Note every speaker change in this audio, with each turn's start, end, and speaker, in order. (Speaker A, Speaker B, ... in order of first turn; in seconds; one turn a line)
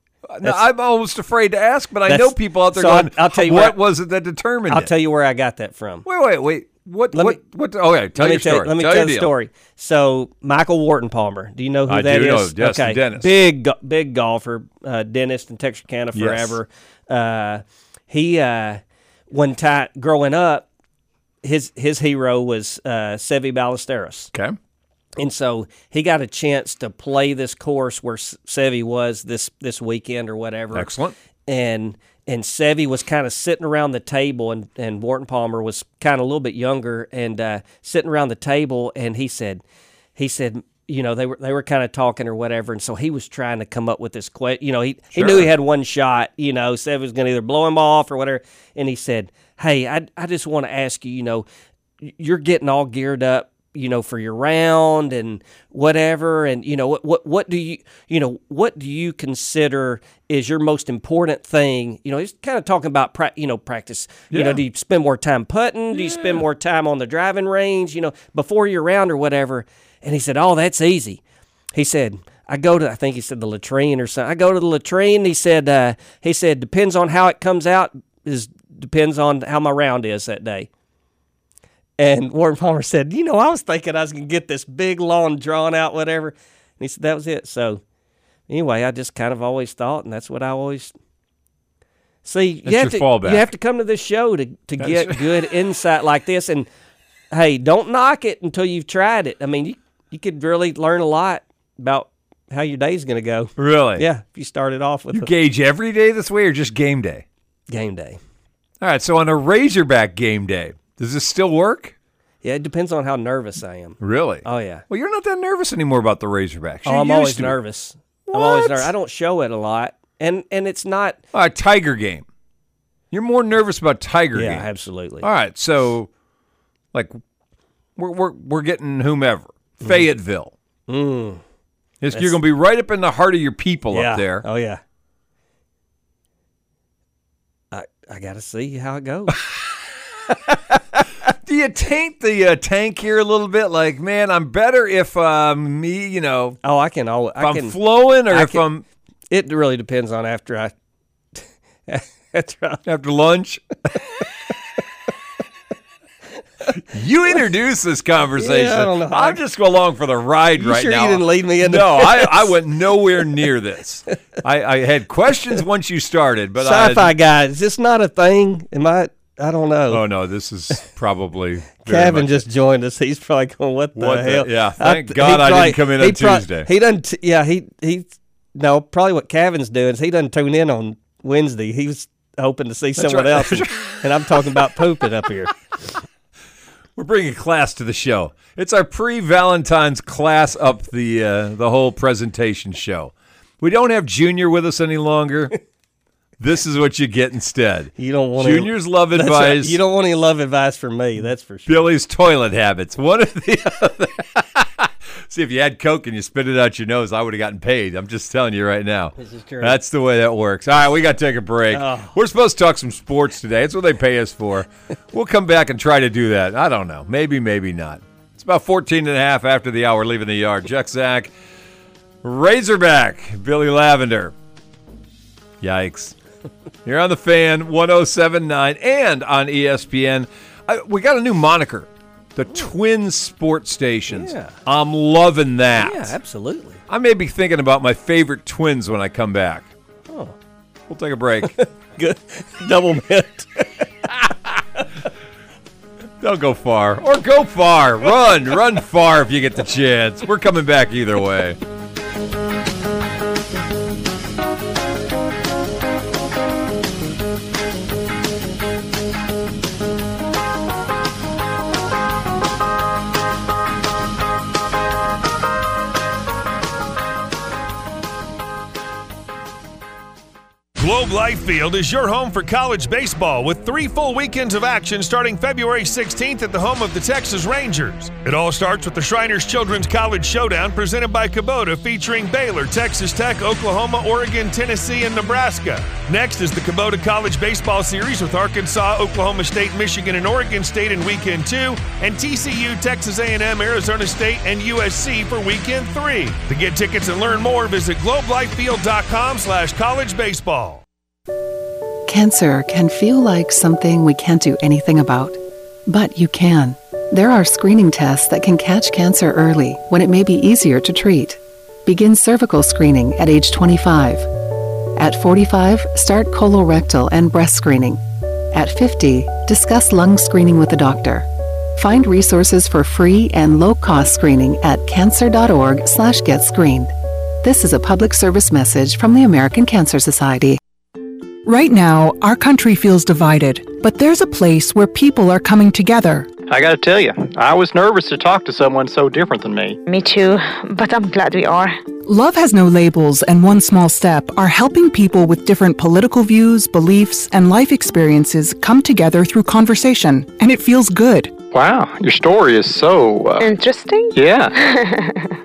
Speaker A: 0.3-4.9
Speaker B: 2.1-3.8
Speaker B: 4.7-6.1
Speaker A: 6.1-9.3
Speaker B: 7.1-7.4
Speaker B: 8.2-20.7
Speaker A: 11.9-13.4
Speaker A: 16.1-16.6
Speaker B: 21.4-24.3
Speaker B: 25.2-30.9
Speaker A: 30.7-31.1
Speaker B: 31.5-39.6
Speaker B: 40.2-51.5
Speaker A: 45.1-45.5
Speaker B: 52.0-71.2
Speaker A: 64.3-64.6
Speaker A: 65.9-66.4
Speaker B: 71.8-80.7
Speaker B: 82.0-87.8
Speaker B: 88.5-90.9
Speaker B: 92.2-96.7
Speaker A: 92.7-93.5
Speaker A: 94.8-95.2
Speaker B: 97.3-105.3
Speaker A: 103.6-104.1
Speaker A: 105.1-107.2
Speaker B: 107.7-108.2
Speaker A: 108.8-111.9
Speaker B: 112.4-114.8
Speaker A: 114.0-117.6
Speaker B: 116.9-121.2
Speaker A: 118.3-118.9
Speaker A: 121.3-122.3
Speaker A: 123.1-124.7
Speaker B: 124.3-125.3
Speaker A: 125.2-126.1
Speaker A: 128.0-130.5
Speaker B: 129.8-130.1
Speaker B: 130.9-131.4
Speaker A: 132.0-134.4
Speaker B: 133.9-134.8
Speaker B: 137.7-139.4
Speaker A: 141.4-146.6
Speaker B: 146.6-147.8
Speaker A: 147.4-148.8
Speaker B: 148.3-148.6
Speaker B: 149.3-150.7
Speaker B: 151.4-152.8
Speaker A: 152.8-153.6
Speaker A: 156.8-167.1
Speaker B: 158.4-159.4
Speaker B: 160.6-162.5
Speaker B: 166.6-170.0
Speaker A: 169.9-172.4
Speaker B: 171.8-185.5
Speaker A: 174.0-176.7
Speaker A: 183.0-184.0
Speaker A: 187.0-195.5
Speaker A: 196.4-199.8
Speaker B: 198.0-201.9
Speaker A: 201.7-221.3
Speaker B: 209.2-209.8
Speaker B: 211.7-212.2
Speaker A: 222.2-224.3
Speaker A: 225.6-226.2
Speaker A: 226.8-236.2
Speaker B: 234.1-234.6
Speaker B: 235.8-236.8
Speaker A: 236.9-239.7
Speaker B: 240.1-240.4
Speaker A: 240.9-241.5
Speaker B: 241.5-243.8
Speaker A: 246.2-251.6
Speaker C: 270.8-300.8
Speaker D: 302.1-314.3
Speaker D: 315.0-330.6
Speaker E: 331.4-336.3
Speaker F: 336.5-339.8
Speaker G: 339.9-341.8
Speaker E: 342.1-351.4
Speaker F: 351.5-353.4
Speaker G: 353.4-355.4
Speaker F: 354.1-354.5